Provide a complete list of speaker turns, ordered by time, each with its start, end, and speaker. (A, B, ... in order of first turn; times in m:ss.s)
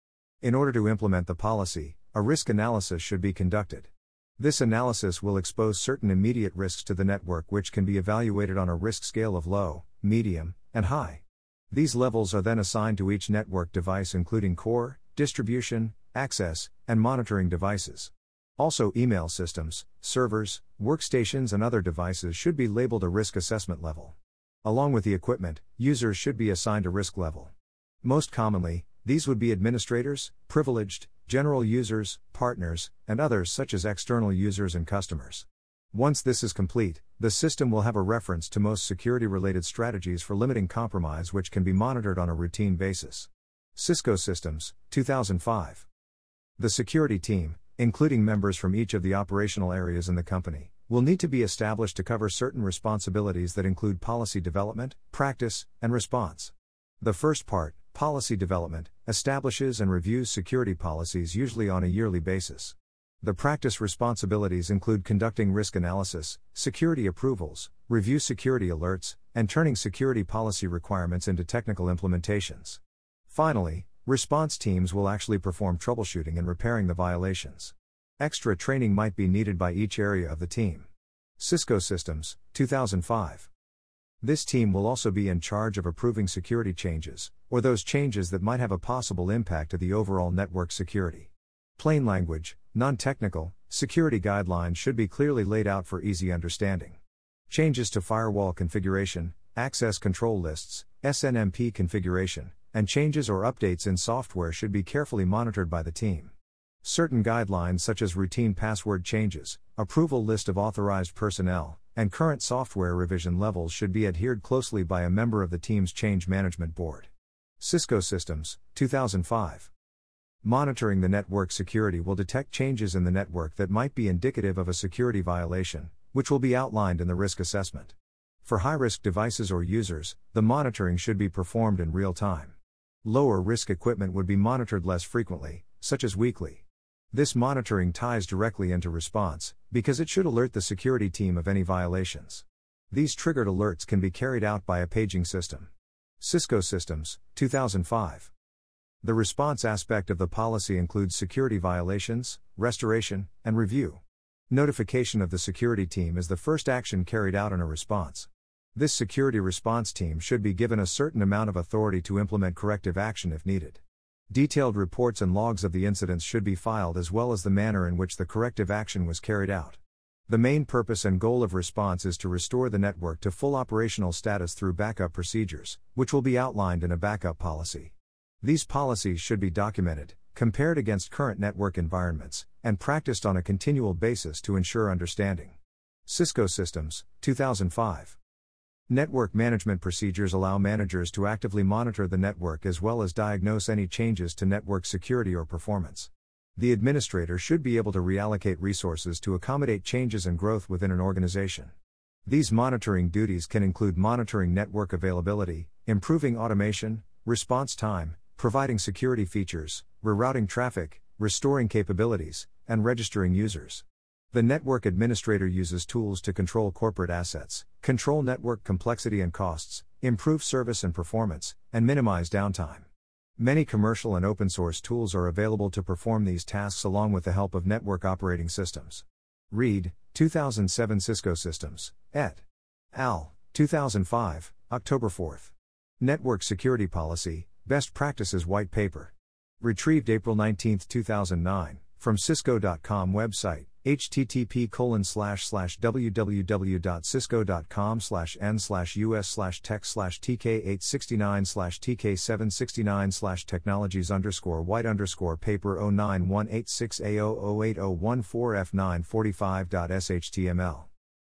0:00.4-0:45.9 A
0:46.6-1:20.9 A
1:21.4-1:23.5 A
1:24.2-1:59.7 A
2:00.4-2:28.3 A
2:29.0-3:08.2 A
3:08.9-3:21.7 A
3:22.2-4:20.9 A